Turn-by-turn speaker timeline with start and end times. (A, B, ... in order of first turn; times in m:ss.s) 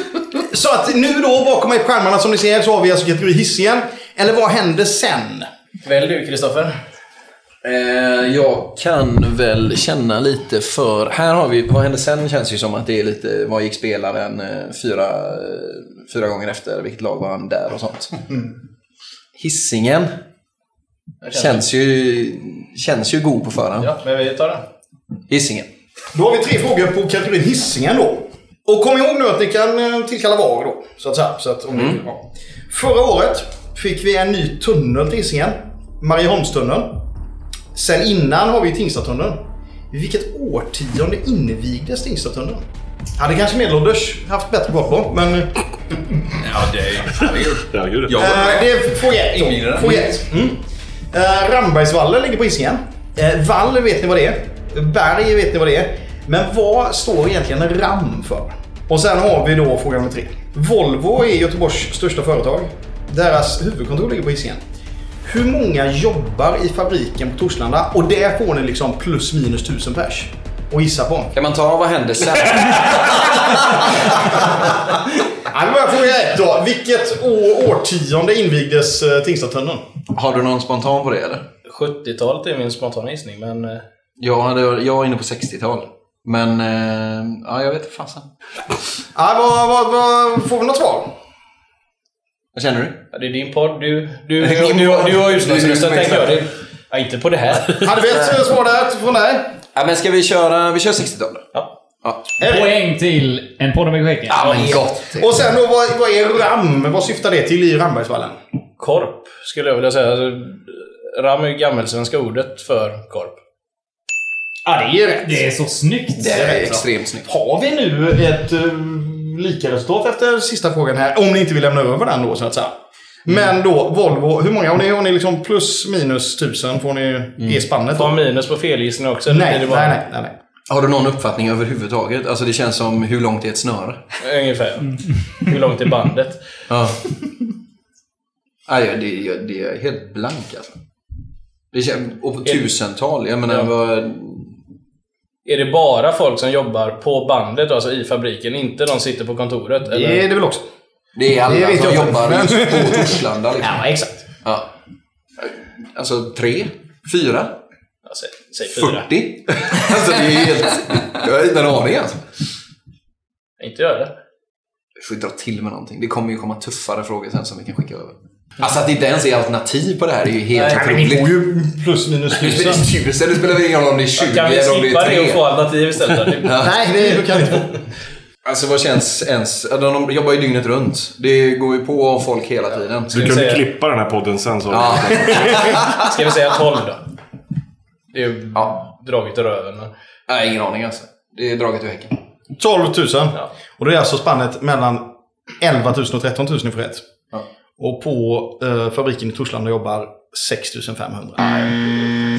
0:00.4-0:05.5 A
0:05.8-0:06.7 B
0:07.6-0:18.2 C
0:19.4-0:20.1 C
0:21.2-0:21.6 B
0:21.3-0:23.9 C
0:23.8-0:24.6 B
0:25.3-0:25.7 C
0:26.1-0:37.0 A
0:31.8-0:32.0 C
0:37.8-0:42.6 A
0:43.2-0:45.5 A
0:46.4-0:50.2 D
0:47.2-0:48.4 E
0:48.2-1:04.6 A
1:05.2-1:11.3 A
1:11.4-1:14.1 C
1:15.5-1:19.8 A
1:20.1-1:21.4 C
1:21.7-1:23.8 B
1:24.2-1:28.3 C
1:29.2-1:31.1 A
1:32.5-1:33.0 C
1:33.1-1:37.8 B
1:34.4-1:36.4 C
1:37.8-1:39.5 A
1:39.8-1:41.5 C
1:42.4-1:42.8 A
1:42.4-1:44.4 F
1:44.3-1:45.3 C
1:44.4-1:44.8 B
1:45.2-1:48.4 A
1:48.8-1:53.4 B
1:54.6-1:55.5 A
1:55.2-1:56.6 F
1:56.2-1:57.3 C
1:56.3-2:02.7 A
2:03.2-2:08.2 A
2:07.9-2:10.0 B
2:09.3-2:10.3 A
2:10.7-2:14.0 C
2:14.2-2:16.4 B
2:16.7-2:17.0 C
2:18.7-2:20.8 C
2:21.7-2:24.6 C
2:25.4-2:30.2 B
2:29.9-2:30.6 A
2:31.2-2:33.8 C
2:31.4-2:34.2 A
2:35.4-2:37.6 C
2:38.0-2:39.1 B
2:38.7-2:42.2 C
2:43.6-2:44.1 B
2:45.0-2:51.3 C
2:50.5-2:51.0 B
2:50.7-2:52.9 A
2:52.4-2:55.5 C
2:54.2-2:56.6 B
2:56.4-2:56.7 C
2:56.6-2:57.8 A
2:58.4-3:03.2 C
3:03.1-3:05.8 E
3:03.1-3:03.6 B
3:04.7-3:06.1 C
3:05.8-3:07.0 B
3:08.1-3:09.9 B
3:08.5-3:08.8 C
3:10.3-3:12.2 C
3:12.6-3:15.1 A
3:15.6-3:17.0 A
3:17.8-3:21.8 A